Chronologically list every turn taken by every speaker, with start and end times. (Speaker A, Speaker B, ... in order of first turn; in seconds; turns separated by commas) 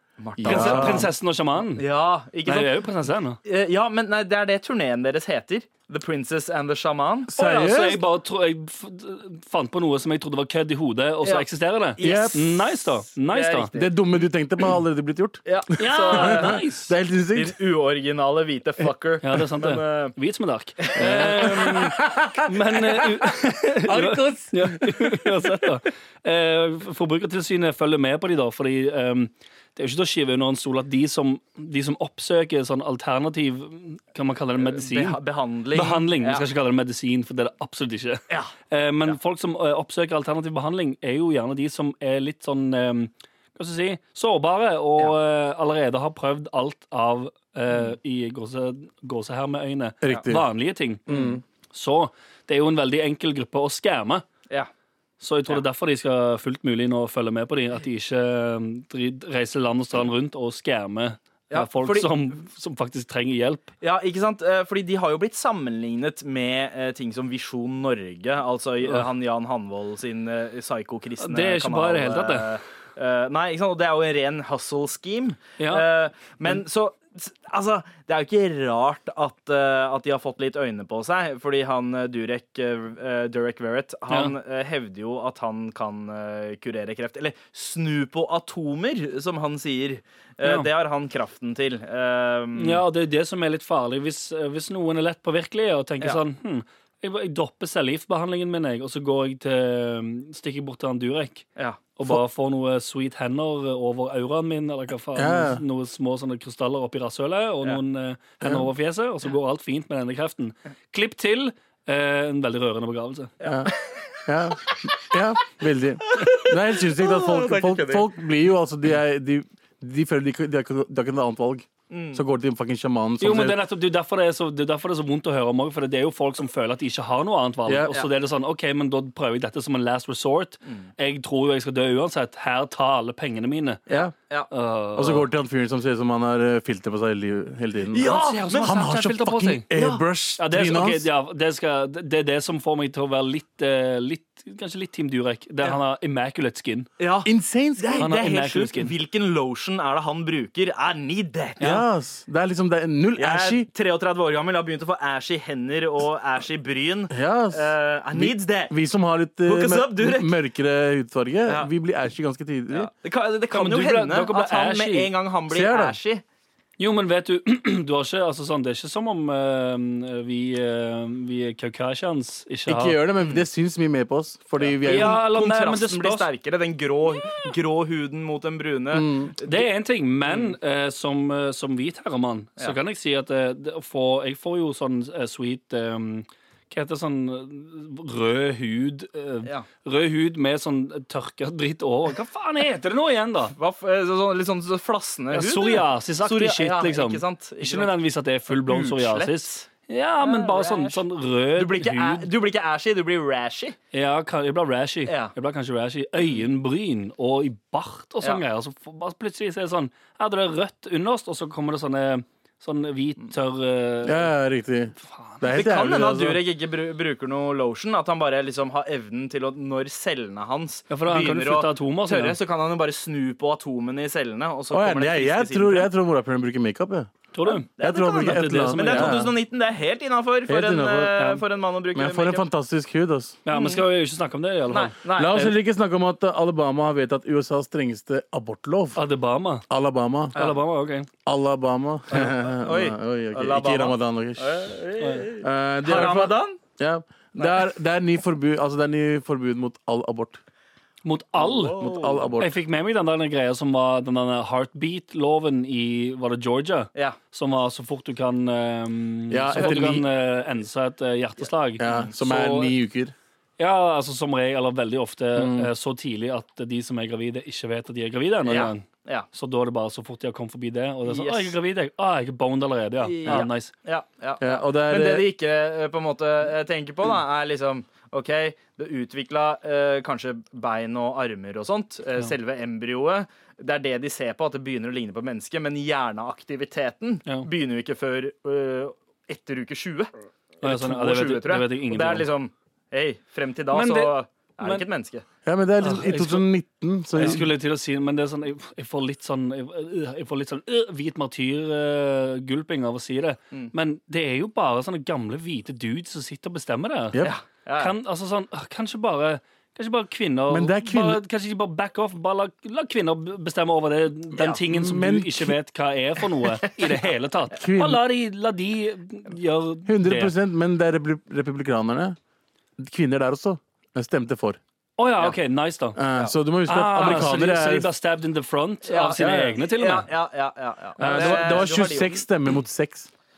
Speaker A: 0.2-1.1, Speaker B: 0.4-1.1, Speaker C: 0.4-1.8, Speaker A: 1.7-2.8, Speaker C: 2.5-3.4, Speaker A: 3.4-7.5, Speaker B: 7.3-8.0, Speaker C: 7.4-13.7, Speaker A: 11.2-12.7, Speaker B: 12.0-12.6, Speaker A: 13.3-13.9, Speaker B: 13.7-15.4, Speaker A: 15.4-16.6, Speaker C: 15.8-16.9, Speaker B: 16.0-17.5, Speaker A: 17.3-20.1, Speaker C: 19.2-35.2, Speaker A: 20.9-21.5, Speaker B: 20.9-25.5, Speaker A: 34.6-36.4, Speaker C: 35.7-51.2, Speaker B: 50.0-50.5, Speaker B: 51.1-51.4, Speaker A: 51.1-51.4, Speaker C: 51.7-54.2, Speaker C: 55.2-63.7, Speaker A: 61.5-62.1, Speaker A: 63.8-92.8, Speaker C: 71.2-72.6, Speaker C: 75.6-75.9, Speaker C: 90.4-90.7, Speaker C: 92.5-113.3, Speaker B: 105.1-105.6, Speaker A: 113.4-114.8, Speaker B: 113.5-113.7, Speaker B: 114.2-123.6, Speaker A: 116.1-118.1, Speaker A: 121.9-122.2, Speaker C: 123.2-133.8, Speaker B: 127.7-127.9, Speaker C: 134.5-135.3, Speaker B: 134.9-138.1, Speaker A: 137.9-138.8, Speaker C: 138.0-139.6, Speaker B: 138.6-141.1, Speaker A: 139.7-140.0, Speaker C: 140.4-146.9, Speaker A: 147.0-151.7, Speaker B: 147.2-148.1, Speaker C: 148.0-148.9, Speaker B: 151.6-153.7, Speaker A: 153.2-158.7, Speaker B: 157.1-162.9, Speaker A: 159.4-160.3, Speaker A: 162.7-166.2, Speaker C: 163.5-165.1, Speaker B: 165.5-166.0, Speaker C: 166.8-173.0, Speaker B: 172.7-175.2, Speaker A: 174.6-179.7, Speaker C: 174.8-176.3, Speaker B: 178.9-179.3, Speaker C: 179.4-193.5, Speaker A: 180.2-180.5, Speaker A: 193.6-198.0, Speaker C: 195.3-202.3, Speaker A: 198.5-199.7, Speaker A: 200.2-201.0, Speaker A: 201.5-203.8, Speaker C: 203.9-214.3, Speaker A: 205.1-205.3, Speaker B: 214.0-216.4, Speaker C: 215.0-215.5, Speaker A: 215.5-225.9, Speaker C: 220.9-222.4, Speaker B: 224.7-227.1, Speaker C: 227.3-229.2, Speaker A: 227.4-232.4, Speaker B: 227.8-229.3, Speaker B: 230.5-231.2, Speaker C: 231.2-231.4, Speaker B: 231.9-233.4, Speaker C: 233.4-235.5, Speaker A: 233.5-233.8, Speaker A: 234.7-235.4, Speaker B: 235.2-239.0, Speaker C: 238.9-239.7, Speaker B: 239.7-240.3, Speaker C: 240.3-241.1, Speaker B: 241.2-244.8, Speaker A: 242.1-246.6, Speaker C: 245.0-245.2, Speaker B: 245.4-250.4, Speaker A: 247.3-247.6, Speaker C: 251.0-251.8, Speaker A: 251.3-252.3, Speaker B: 251.8-252.6, Speaker C: 252.4-262.7, Speaker B: 259.3-260.0, Speaker A: 259.5-260.0, Speaker B: 261.8-263.1, Speaker A: 261.8-262.1, Speaker C: 263.6-273.7, Speaker B: 265.4-265.7, Speaker A: 268.4-269.2, Speaker A: 271.0-271.5, Speaker A: 273.0-295.2, Speaker B: 274.4-275.3, Speaker C: 290.6-292.3, Speaker C: 293.7-294.8, Speaker B: 295.4-297.4, Speaker C: 295.8-296.4, Speaker C: 297.1-307.2, Speaker A: 307.2-307.9, Speaker C: 307.8-320.3, Speaker B: 310.5-311.2, Speaker B: 314.7-315.5, Speaker B: 317.6-318.0, Speaker B: 319.9-322.2, Speaker B: 322.8-324.6, Speaker C: 325.0-326.0, Speaker B: 325.9-327.9, Speaker C: 326.7-330.1, Speaker A: 328.8-332.2, Speaker B: 329.2-329.5, Speaker C: 331.0-331.7, Speaker B: 331.0-333.1